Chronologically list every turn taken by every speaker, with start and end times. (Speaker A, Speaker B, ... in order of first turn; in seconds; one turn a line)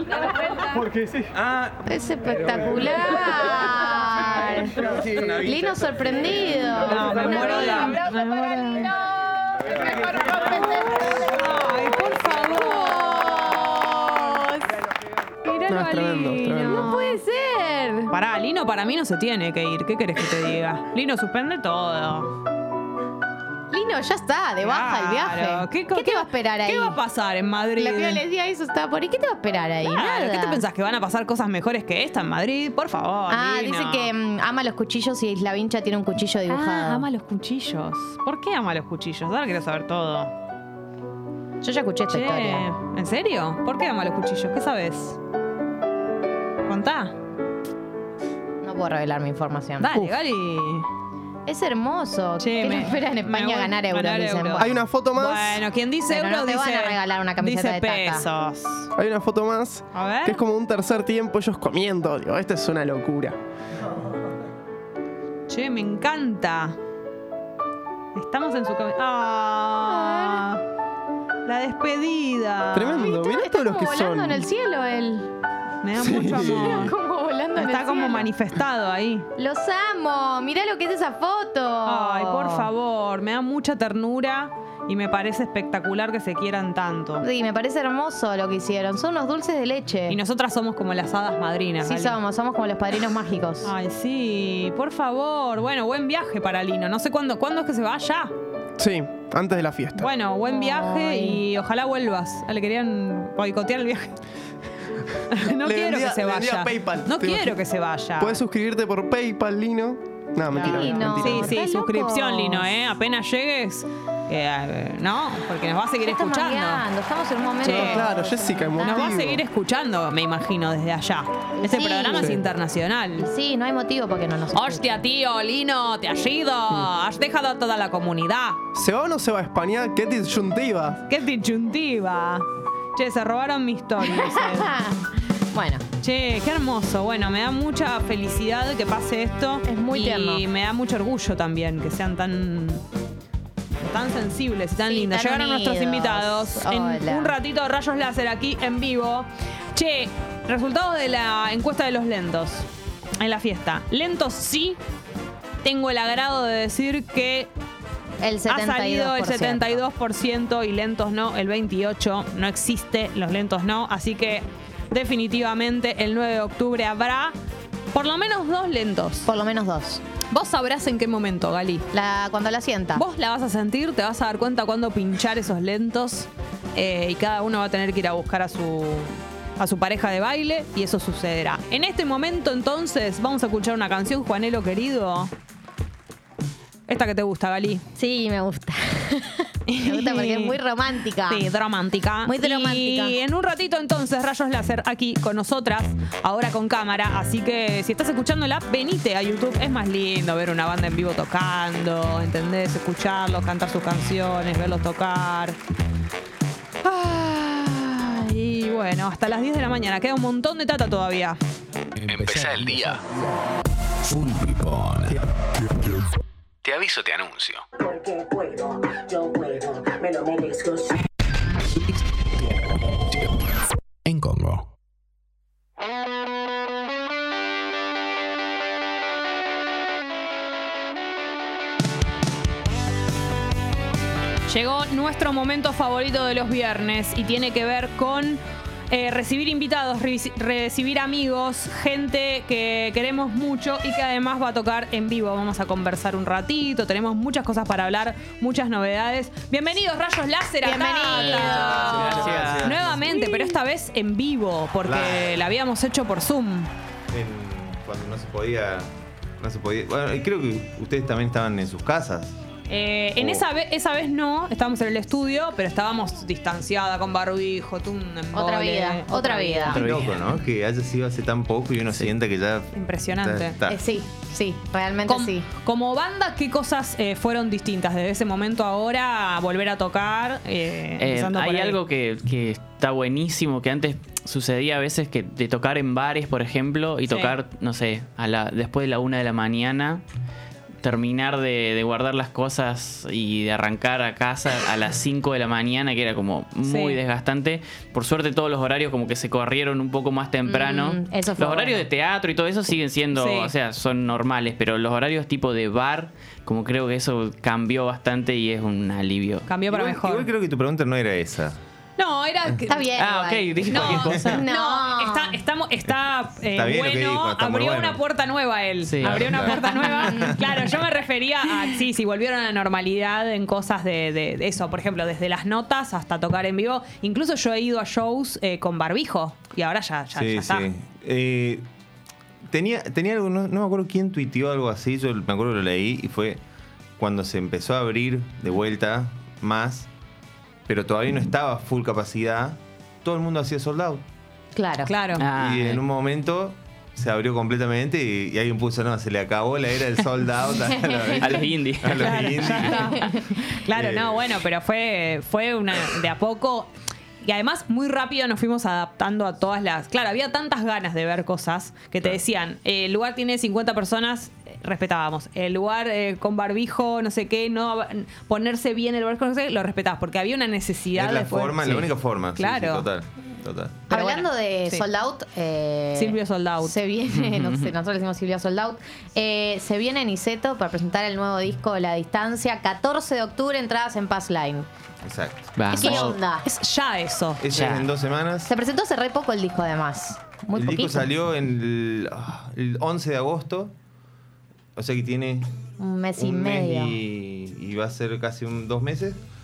Speaker A: 1.8-8.0
Speaker B: 6.8-8.9
Speaker B: 10.4-13.4
Speaker A: 12.5-14.7
Speaker B: 15.4-17.2
Speaker C: 15.7-16.9
Speaker A: 16.6-18.1
Speaker B: 18.1-22.3
Speaker A: 23.7-27.0
Speaker B: 24.6-28.2
Speaker A: 27.8-30.6
Speaker B: 29.9-34.1
Speaker A: 33.3-37.1
Speaker B: 36.5-40.3
Speaker A: 41.6-42.7
Speaker B: 42.1-45.2
Speaker B: 46.7-47.1
Speaker A: 48.6-50.0
Speaker B: 49.8-50.9
Speaker A: 51.5-54.7
Speaker B: 52.4-58.9
Speaker C: 54.6-55.6
Speaker A: 56.1-58.3
Speaker C: 59.0-63.4
Speaker B: 59.9-60.4
Speaker B: 65.5-66.8
Speaker B: 68.2-70.6
Speaker A: 69.8-70.5
Speaker B: 71.5-73.1
Speaker C: 72.7-74.4
Speaker A: 72.9-75.3
Speaker B: 75.8-77.0
Speaker C: 76.0-76.9
Speaker A: 76.0-78.3
Speaker B: 77.6-79.3
Speaker A: 79.4-82.7
Speaker B: 81.8-87.2
Speaker A: 87.2-90.2
Speaker B: 90.1-92.2
Speaker A: 91.8-93.7
Speaker B: 93.6-98.3
Speaker C: 98.8-100.1
Speaker B: 100.0-104.2
Speaker A: 100.5-101.4
Speaker B: 105.3-108.4
Speaker C: 105.6-107.6
Speaker C: 108.2-111.6
Speaker A: 110.5-112.7
Speaker B: 110.5-116.8
Speaker A: 116.0-119.2
Speaker B: 117.6-118.1
Speaker C: 117.6-119.4
Speaker B: 118.8-123.3
Speaker A: 121.6-122.4
Speaker A: 123.2-124.9
Speaker B: 124.5-128.6
Speaker C: 128.7-131.0
Speaker B: 131.1-134.7
Speaker A: 134.0-135.8
Speaker B: 136.0-142.8
Speaker A: 139.7-140.4
Speaker B: 143.8-152.7
Speaker A: 144.8-147.4
Speaker B: 153.2-154.8
Speaker B: 155.6-157.5
Speaker A: 158.2-159.8
Speaker B: 158.5-167.3
Speaker B: 167.9-169.3
Speaker A: 169.2-170.0
Speaker B: 170.3-171.9
Speaker A: 171.9-173.0
Speaker B: 172.9-185.3
Speaker B: 186.9-187.8
Speaker A: 187.9-191.5
Speaker B: 189.7-190.6
Speaker B: 191.3-205.6
Speaker A: 192.2-193.2
Speaker B: 206.8-211.4
Speaker D: 212.0-213.0
Speaker D: 214.1-215.2
Speaker D: 216.6-217.6
Speaker E: 217.8-220.9
Speaker D: 221.8-223.4
Speaker D: 224.1-224.7
Speaker B: 234.5-256.7
Speaker A: 250.6-252.3
Speaker F: 251.4-252.8
Speaker G: 251.6-253.0
Speaker A: 253.0-253.6
Speaker G: 254.8-255.4
Speaker G: 257.1-262.4
Speaker B: 262.7-269.9
Speaker G: 263.2-263.4
Speaker A: 268.3-269.9
Speaker G: 269.7-273.8
Speaker F: 269.7-270.2
Speaker B: 272.7-273.6
Speaker A: 273.6-275.5
Speaker B: 275.1-281.8
Speaker F: 281.0-290.0
Speaker B: 287.1-287.4
Speaker F: 290.8-309.5
Speaker B: 296.6-297.0
Speaker A: 300.4-301.9
Speaker B: 303.1-303.5
Speaker B: 309.5-310.3
Speaker G: 309.7-311.6
Speaker B: 312.0-312.9
Speaker A: 312.7-315.4
Speaker F: 313.0-314.3
Speaker B: 313.6-330.7
Speaker G: 313.8-314.2
Speaker G: 316.5-318.0
Speaker F: 318.8-319.5
Speaker G: 319.0-320.8
Speaker G: 330.1-331.7
Speaker G: 332.5-336.4
Speaker G: 337.0-339.9
Speaker G: 340.7-344.0
Speaker A: 344.6-344.9
Speaker B: 344.9-345.2
Speaker F: 345.2-345.8
Speaker G: 345.3-352.9
Speaker A: 350.6-351.4
Speaker F: 351.2-352.4
Speaker B: 351.9-356.7
Speaker A: 352.7-353.2
Speaker G: 353.7-354.4
Speaker B: 357.2-371.8
Speaker G: 370.9-373.8
Speaker B: 372.4-372.9
Speaker A: 373.9-384.7
Speaker B: 373.9-374.9
Speaker B: 375.9-376.8
Speaker F: 377.1-377.7
Speaker G: 385.0-386.1
Speaker F: 385.6-386.1
Speaker A: 385.7-386.4
Speaker B: 385.8-387.4
Speaker G: 387.4-388.5
Speaker F: 387.5-387.9
Speaker A: 388.5-391.1
Speaker G: 390.5-393.7
Speaker G: 394.8-395.5
Speaker A: 395.8-397.0
Speaker G: 396.2-399.2